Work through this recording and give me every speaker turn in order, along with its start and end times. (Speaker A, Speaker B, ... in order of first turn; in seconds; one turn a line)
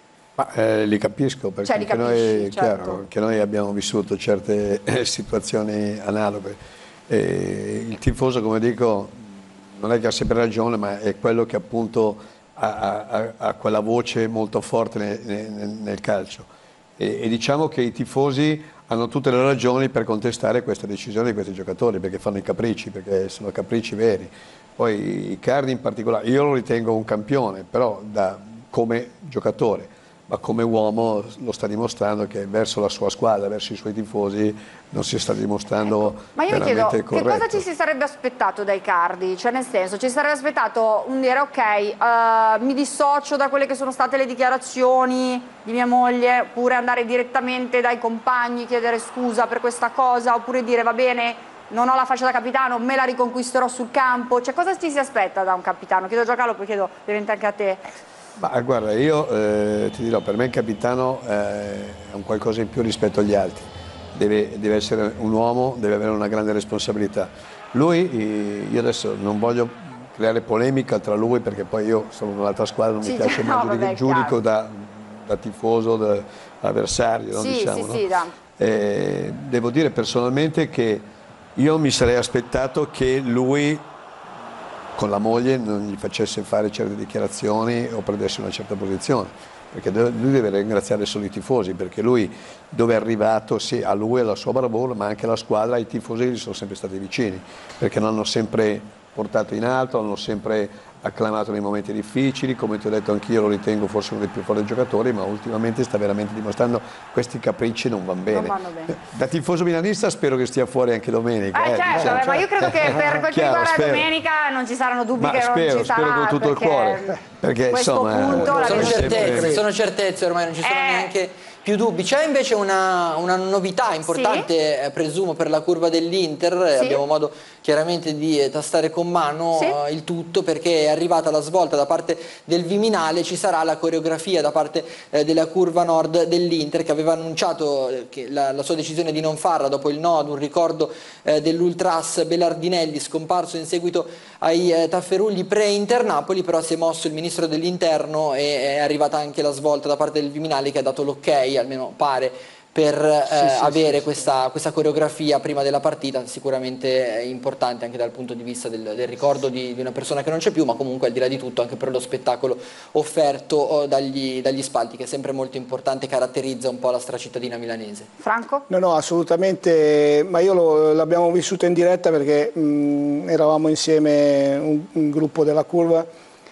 Speaker A: 0.4-6.6
Speaker B: 1.6-3.0
Speaker A: 7.1-37.6
Speaker B: 36.3-57.8
Speaker A: 58.4-78.0
Speaker B: 73.0-74.3
Speaker B: 77.3-78.3
Speaker A: 78.6-83.8
Speaker A: 84.9-114.1
Speaker B: 108.3-108.9
Speaker B: 111.5-117.2
Speaker C: 112.0-112.3
Speaker A: 115.2-119.6
Speaker B: 117.7-119.1
Speaker C: 118.3-119.6
Speaker D: 118.5-168.1
Speaker B: 120.6-121.1
Speaker B: 124.1-124.5
Speaker B: 126.8-127.0
Speaker C: 153.4-153.8
Speaker B: 168.2-168.6
Speaker C: 168.7-176.1